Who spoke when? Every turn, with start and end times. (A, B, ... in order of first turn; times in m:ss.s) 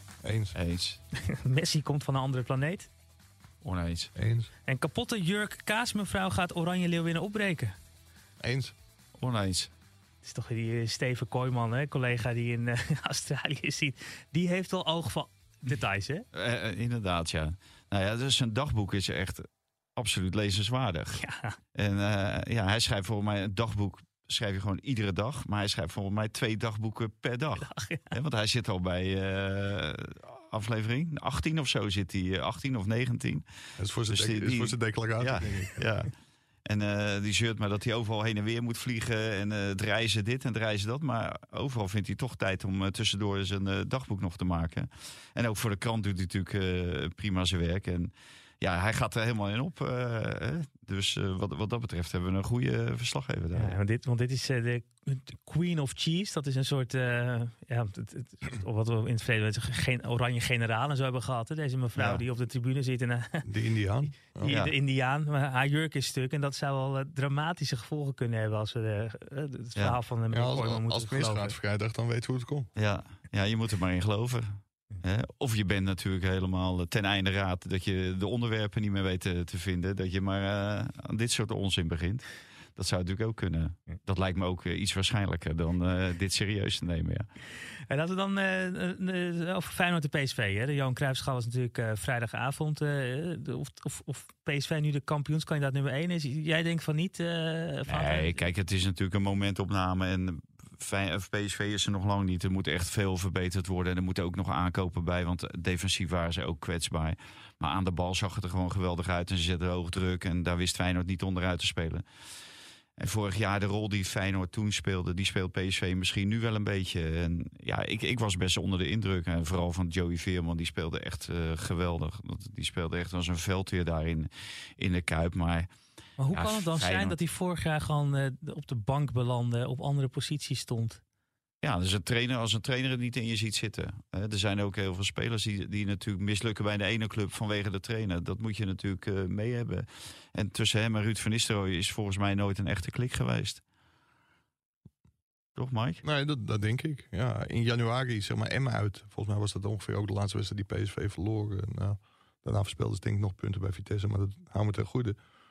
0:00.2-0:00.6 A
0:00.5-0:01.0 B
0:01.1-0:02.9 C
0:03.6-0:04.1 B
0:04.2-0:04.5 A
0:04.6-0:07.8 C
0:08.4-0:08.7 A
0:09.2-0:09.7 B
0:10.2-0:16.2 C
0:16.3-0:21.2 B
0:21.2-0:21.6 C
0:21.7-0:33.4 B
0:27.6-0:28.1 C
0:33.8-0:35.9 A
0:34.1-0:36.1 B
0:36.7-0:53.8 B
0:53.5-1:03.5 C
1:02.0-1:02.2 B
1:03.4-1:04.5 A
1:04.3-1:11.5 C
1:04.5-1:04.7 B
1:10.3-1:12.7 A
1:12.8-1:27.3 B
1:27.9-1:38.4 C
1:37.9-1:52.0 B
1:53.0-2:05.7 B
2:06.2-2:11.0 C
2:06.3-2:07.1 B
2:11.6-2:23.6 B
2:25.6-2:26.0 B
2:26.0-2:35.2 A